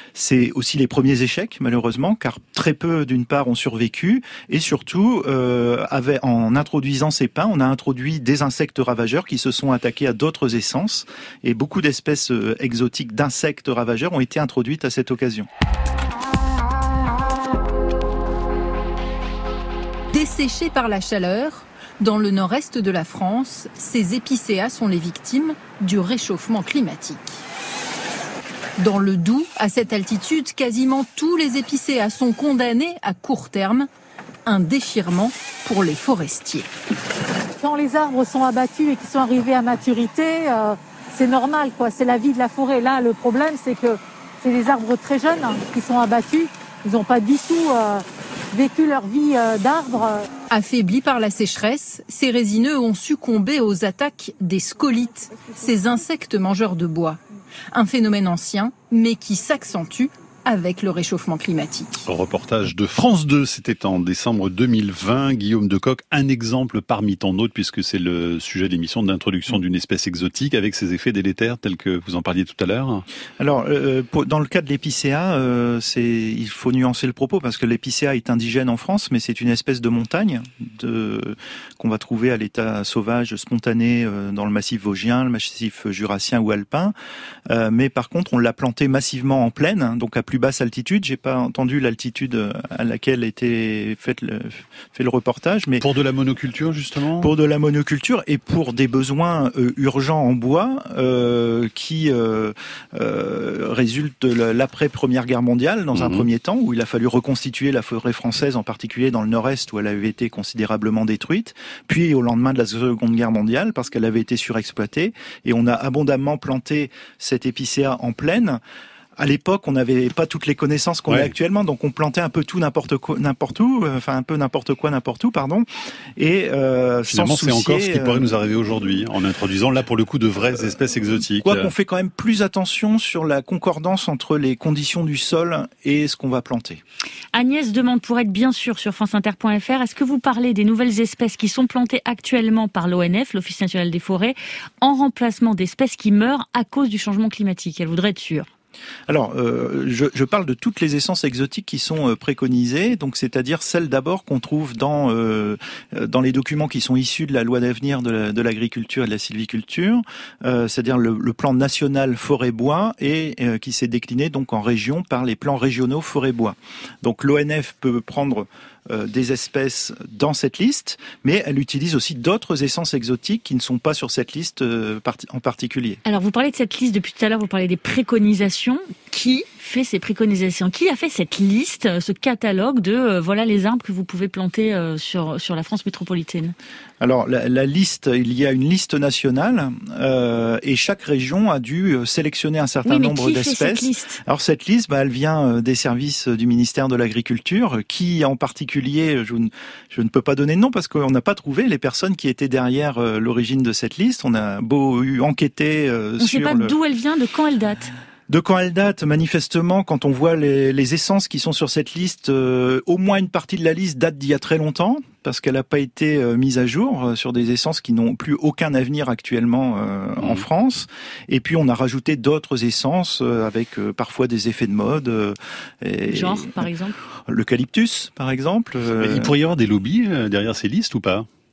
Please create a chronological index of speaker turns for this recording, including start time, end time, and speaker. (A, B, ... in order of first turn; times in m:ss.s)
0:00.1-0:15.5 A
0:20.1-0:27.4 B
0:28.8-0:33.9 B
0:34.4-0:36.7 B
0:37.6-0:50.3 C
0:50.5-0:57.2 B
0:57.7-1:02.1 B
1:02.1-1:13.0 D
1:13.4-1:26.9 A
1:27.5-1:35.8 A
1:35.8-1:37.3 D
1:37.2-1:58.6 A
1:45.9-1:46.3 D
1:59.2-2:05.6 A
2:01.1-2:01.3 D
2:06.2-2:08.3 A
2:07.0-2:11.7 D
2:11.4-2:16.8 A
2:17.3-2:28.5 E
2:29.1-2:56.0 A
2:56.0-3:06.5 E
3:07.0-3:26.7 A
3:12.8-3:14.2 E
3:26.2-3:27.9 E
3:28.3-3:46.7 A
3:46.1-3:46.9 E
3:47.3-3:49.3 A
3:48.9-3:51.3 D